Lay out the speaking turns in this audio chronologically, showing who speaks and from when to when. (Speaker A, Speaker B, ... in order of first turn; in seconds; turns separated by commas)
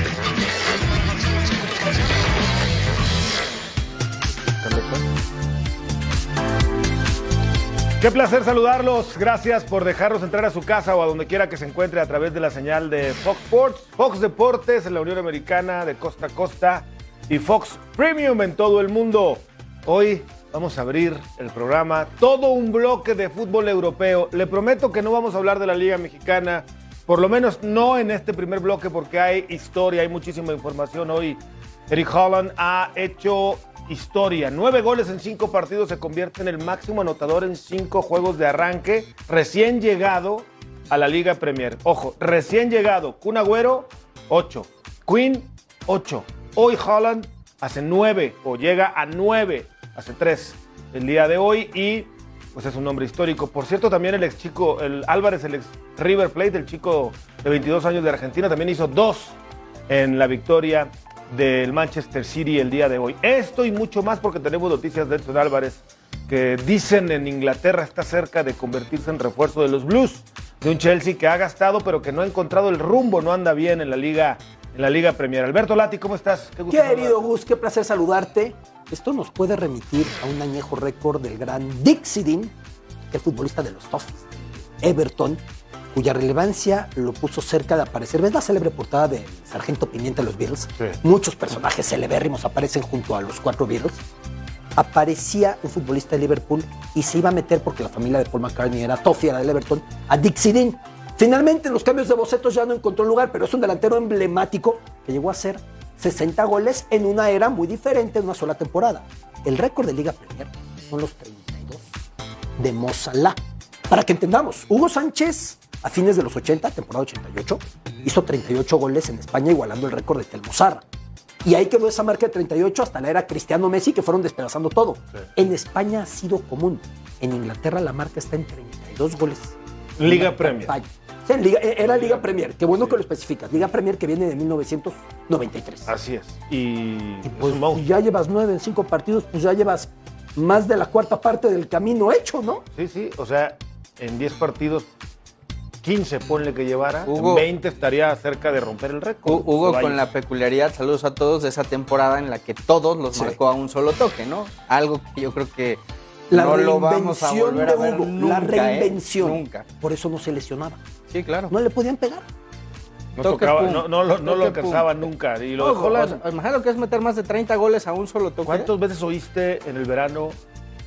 Speaker A: 4.6-5.1, Speaker A: 8.0-59.4, Speaker A: 59.9-77.2, Speaker B: 76.7-82.5, Speaker B: 83.1-85.4, Speaker B: 85.9-94.0, Speaker B: 94.8-111.9, Speaker B: 112.6-120.8, Speaker B: 121.4-135.9, Speaker A: 130.0-130.7, Speaker A: 131.9-132.3, Speaker A: 135.9-137.8, Speaker B: 137.2-142.6, Speaker A: 142.8-144.9, Speaker A: 145.8-150.0, Speaker C: 147.1-147.4, Speaker C: 149.2-159.7, Speaker B: 156.3-160.8, Speaker C: 161.1-161.5, Speaker B: 161.5-162.2, Speaker A: 163.2-166.2, Speaker C: 163.2-165.0, Speaker C: 165.6-168.7, Speaker A: 168.5-170.4